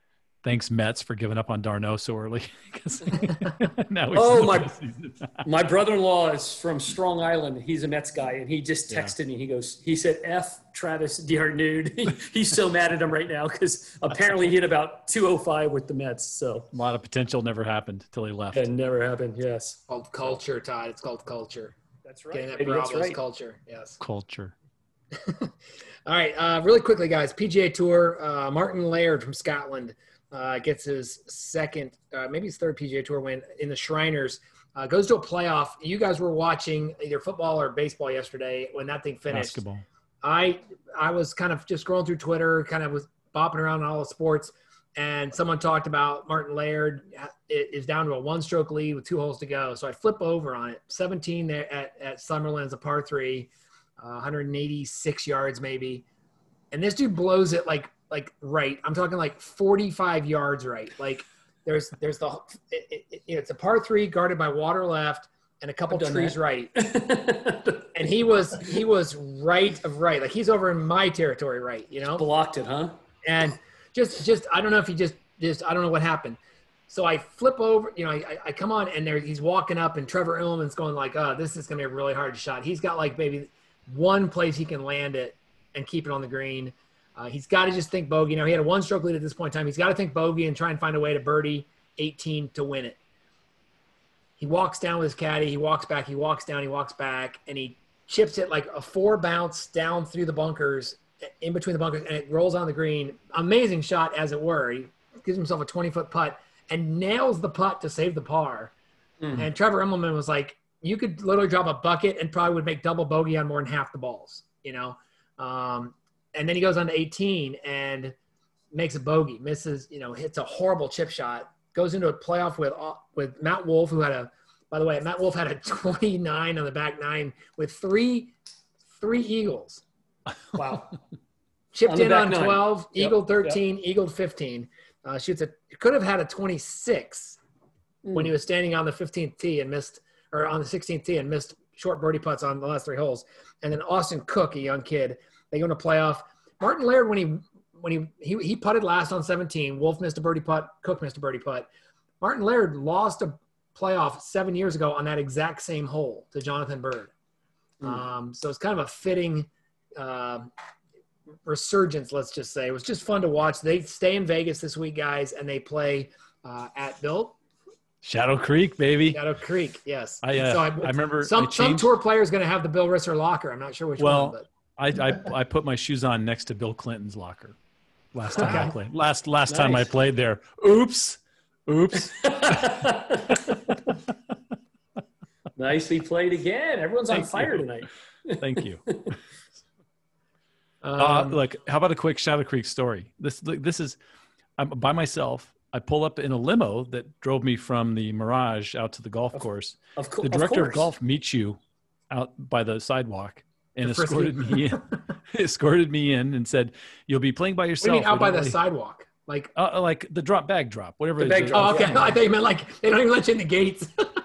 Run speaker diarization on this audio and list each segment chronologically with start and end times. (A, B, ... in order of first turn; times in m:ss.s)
0:00.4-0:05.4 A
0:04.1-0:04.7 B
0:05.4-0:16.7 B
0:08.9-0:09.1 A
0:16.7-0:18.7 A
0:18.5-0:19.8 B
0:19.9-0:21.8 C
0:22.0-0:23.2 B
0:22.3-0:24.0 C
0:24.0-0:24.5 A
0:25.1-0:25.5 C
0:26.0-0:39.6 C
0:39.3-0:39.8 A
0:40.2-0:56.0 C
0:56.7-1:06.7 C
1:05.9-1:07.9 B
1:07.9-1:12.2 C
1:12.2-1:13.0 B
1:13.2-1:16.4 C
1:16.9-1:33.0 C
1:34.4-1:48.7 C
1:49.2-1:49.4 B
1:49.3-1:58.2 C
1:58.7-2:08.3 C
2:09.0-2:09.8 C
2:10.5-2:11.0 B
2:11.7-2:17.4 C
2:11.8-2:13.6 B
2:18.0-2:18.3 B
2:18.1-2:31.7 C
2:32.2-2:37.1 C
2:37.8-2:40.5 C
2:41.4-2:47.4 C
2:48.0-2:49.2 A
2:49.1-2:54.4 C
2:50.2-2:51.9 A
2:54.0-2:57.6 A
2:58.1-3:03.6 A
2:58.4-2:58.7 C
2:58.4-2:58.7 B
2:59.5-2:59.9 B
3:02.2-3:03.5 B
3:05.6-3:09.1 B
3:07.1-3:07.6 A
3:08.4-3:09.1 A
3:10.8-3:11.4 C
3:11.0-3:14.0 A
3:14.6-3:28.6 A
3:20.0-3:20.9 B
3:23.8-3:24.9 C
3:27.8-3:29.5 C
3:29.5-3:32.2 A
3:31.2-3:32.1 B
3:31.5-3:34.0 C